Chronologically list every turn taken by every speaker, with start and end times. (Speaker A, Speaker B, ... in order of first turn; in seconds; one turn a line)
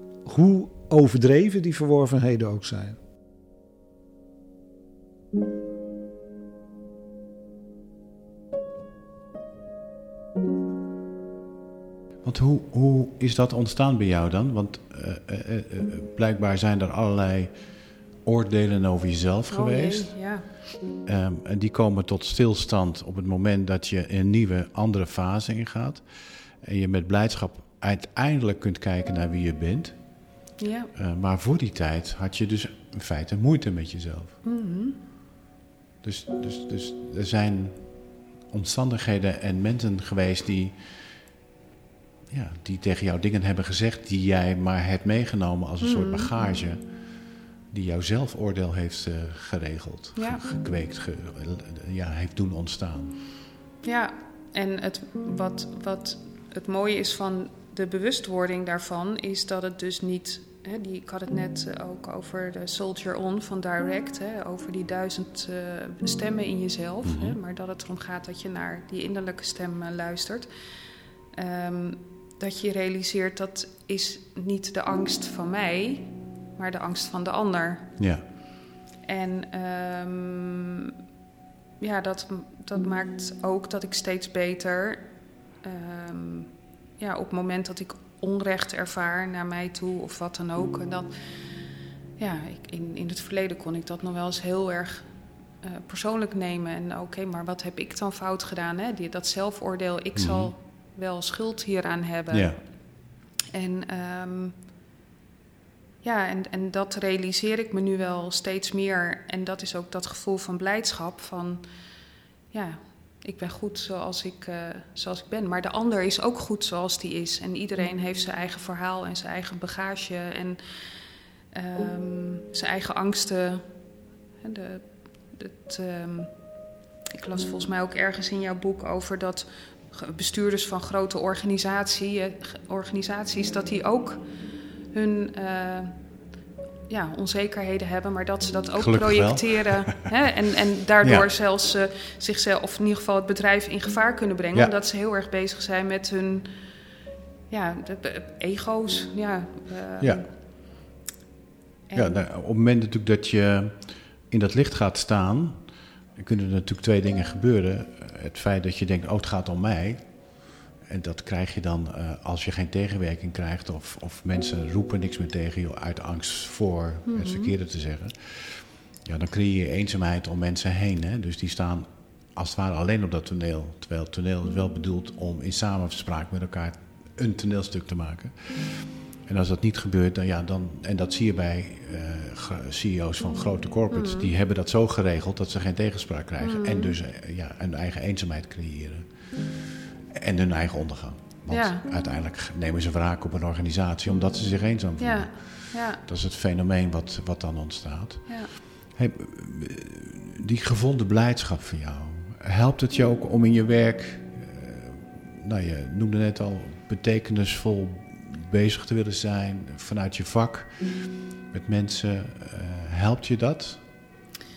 Speaker A: 0.2-3.0
Speaker B: 12.2-17.5
Speaker B: 18.2-20.2
Speaker C: 19.5-20.5
Speaker B: 21.1-30.0
Speaker C: 30.6-30.9
Speaker B: 30.9-34.4
Speaker C: 34.4-35.0
Speaker B: 36.0-41.0
Speaker B: 42.3-47.1
Speaker C: 45.8-46.3
Speaker B: 47.7-53.1
Speaker C: 50.1-50.5
Speaker C: 53.8-70.5
Speaker B: 67.0-67.4
Speaker C: 71.3-77.9
Speaker B: 78.0-78.2
Speaker C: 79.0-80.9
Speaker C: 81.8-85.1
Speaker C: 85.6-91.1
Speaker C: 92.2-95.1
Speaker C: 95.6-102.9
Speaker B: 100.1-100.5
Speaker B: 102.3-102.6
Speaker C: 103.5-104.6
Speaker C: 106.0-111.6
Speaker C: 112.5-120.6
Speaker C: 121.5-123.7
Speaker C: 124.4-126.3
Speaker C: 127.1-134.2
Speaker C: 134.9-136.0
Speaker C: 136.9-146.5
Speaker B: 138.8-140.1
Speaker B: 141.0-141.3
Speaker C: 147.5-150.3
Speaker C: 151.9-152.2
Speaker B: 151.9-160.1
Speaker B: 160.8-213.8
Speaker C: 167.1-167.6
Speaker C: 183.9-184.3
Speaker C: 186.4-187.0
Speaker C: 191.5-191.8
Speaker C: 195.0-196.0
Speaker C: 198.3-198.5